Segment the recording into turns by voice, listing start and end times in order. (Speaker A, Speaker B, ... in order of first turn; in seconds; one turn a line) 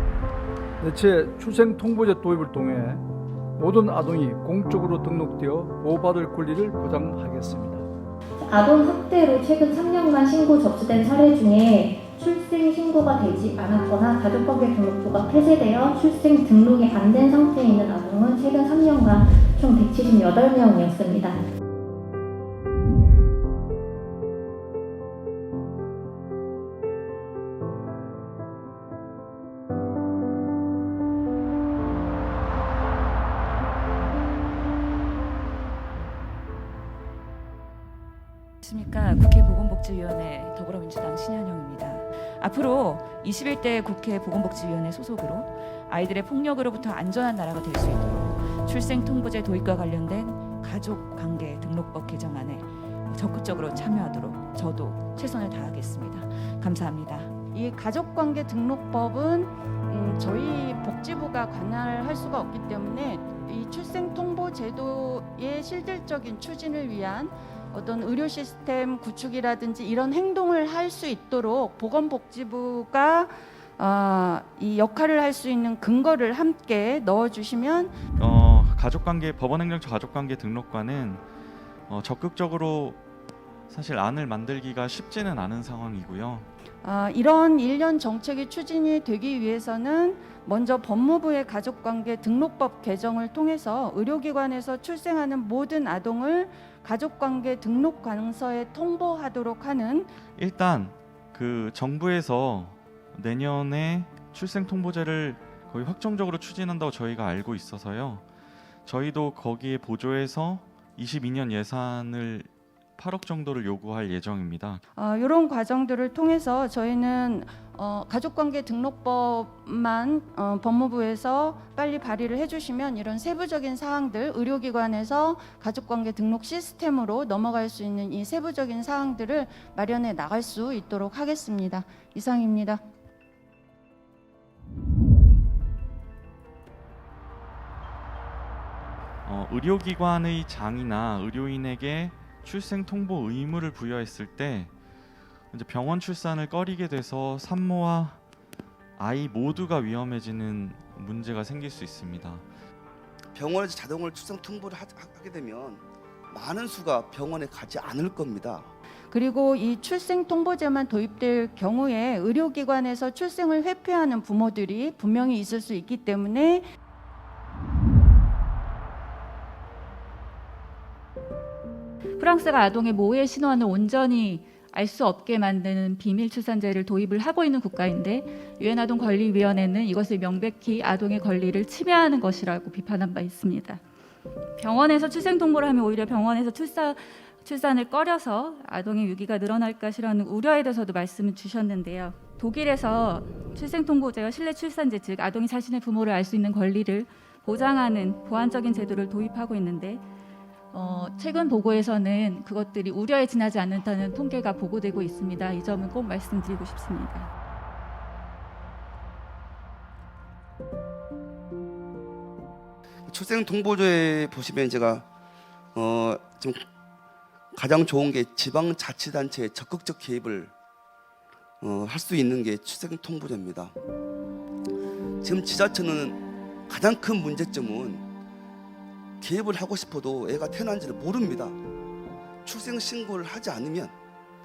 Speaker A: 0.8-3.0
Speaker A: 3.6-7.8
Speaker B: 8.4-21.4
Speaker C: 38.6-57.4
Speaker D: 57.5-78.0
Speaker E: 78.2-81.2
Speaker E: 81.9-83.0
Speaker E: 83.7-86.5
Speaker D: 86.8-100.1
Speaker E: 100.4-108.2
Speaker E: 108.8-114.8
Speaker D: 114.9-132.8
Speaker E: 139.2-144.7
Speaker E: 145.5-148.2
Speaker E: 149.0-152.4
Speaker F: 153.3-158.7
Speaker D: 159.1-166.7
Speaker G: 172.2-183.8
Speaker G: 184.6-200.0
Speaker G: 200.7-207.3
Speaker F: 213.1-215.1
Speaker F: 215.7-216.6
Speaker F: 217.5-220.5
Speaker F: 221.6-223.7
Speaker F: 225.2-228.0
Speaker F: 229.2-231.6
Speaker F: 232.4-233.9